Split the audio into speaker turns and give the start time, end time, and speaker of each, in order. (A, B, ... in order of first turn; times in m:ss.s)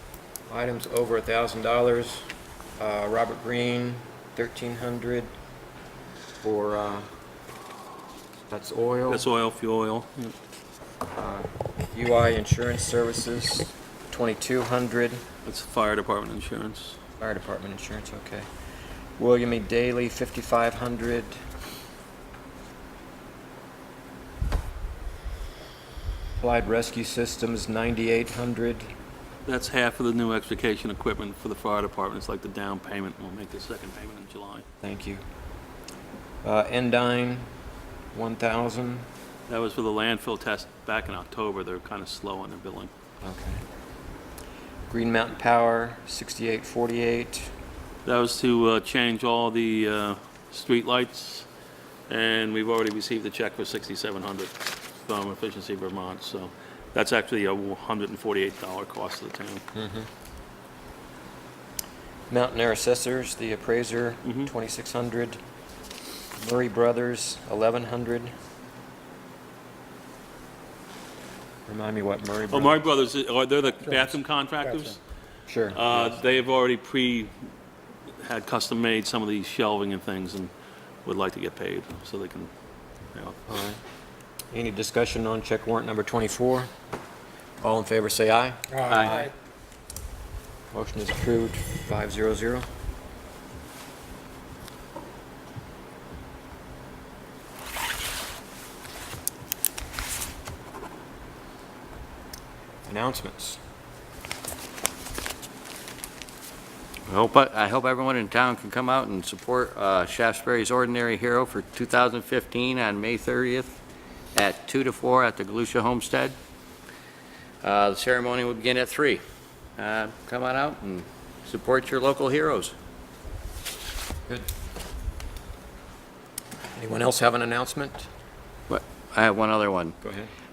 0:00.4-0:05.3 A
0:06.4-0:07.1 A
0:08.5-0:09.2 A
0:09.1-0:10.3 B
0:11.1-0:15.2 A
0:15.4-0:17.0 B
0:17.2-0:18.5 A
0:19.2-0:21.4 A
0:26.4-0:28.9 A
0:29.4-0:34.6 B
0:34.8-0:35.2 A
0:36.4-0:37.5 A
0:38.1-0:39.1 A
0:39.5-0:42.9 B
0:43.2-0:43.6 A
0:44.9-0:47.5 A
0:48.0-0:51.5 B
0:52.1-0:59.6 B
0:59.7-1:00.1 A
1:02.3-1:05.4 A
1:04.2-1:04.5 B
1:06.4-1:08.3 A
1:11.7-1:12.8 A
1:12.5-1:15.0 B
1:15.5-1:16.0 A
1:15.7-1:17.3 B
1:18.2-1:20.5 B
1:21.0-1:22.5 B
1:23.5-1:23.8 A
1:24.5-1:26.7 A
1:27.6-1:29.3 A
1:28.9-1:29.1 C
1:30.7-1:32.7 A
1:42.9-1:43.6 A
1:47.1-1:53.8 C
1:54.3-1:56.3 C
1:57.6-1:59.2 C
1:59.8-2:02.7 C
2:06.7-2:08.1 A
2:08.7-2:09.9 C
2:10.0-2:10.3 A